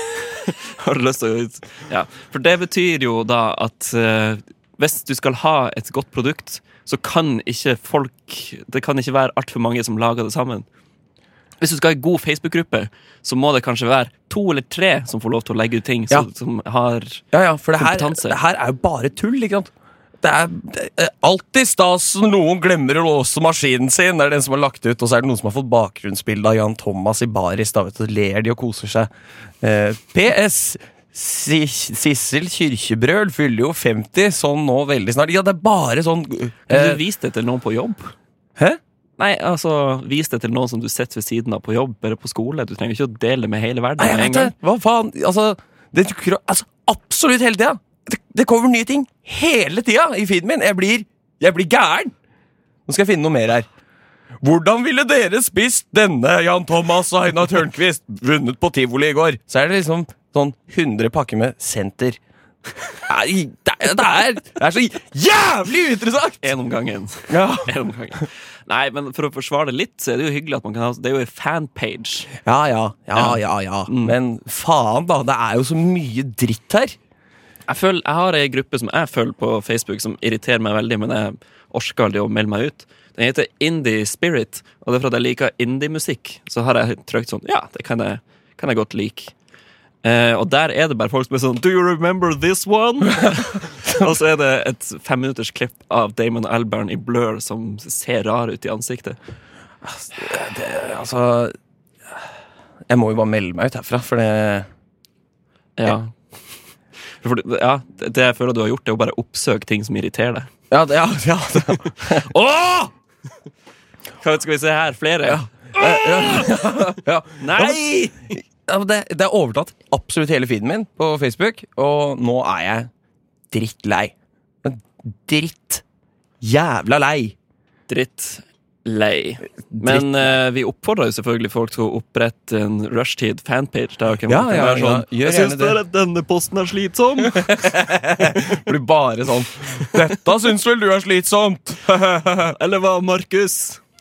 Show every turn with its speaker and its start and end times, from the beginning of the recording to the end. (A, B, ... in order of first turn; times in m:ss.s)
0:00.4-0:10.6 A
0:11.6-0:17.2 A
0:17.3-0:37.0 B
0:17.8-0:18.4 A
0:36.7-0:38.1 A
0:39.2-0:44.5 A
0:44.0-0:52.1 B
0:52.9-0:53.7 B
0:54.4-1:02.2 B
1:03.1-1:06.5 B
1:06.4-1:12.3 A
1:07.3-1:07.7 B
1:12.4-1:17.0 B
1:13.1-1:14.2 A
1:17.7-1:29.3 A
1:30.0-1:39.2 A
1:39.8-1:41.5 B
1:42.9-1:44.7 B
1:45.8-1:46.1 A
1:47.2-1:50.5 A
1:50.7-1:52.9 B
1:54.2-1:56.5 A
1:55.2-2:02.9 B
1:57.4-1:58.0 A
2:03.5-2:05.8 B
2:06.4-2:07.3 B
2:07.9-2:17.5 A
2:09.7-2:10.4 B
2:14.3-2:15.8 B
2:17.2-2:22.6 B
2:22.5-2:23.8 A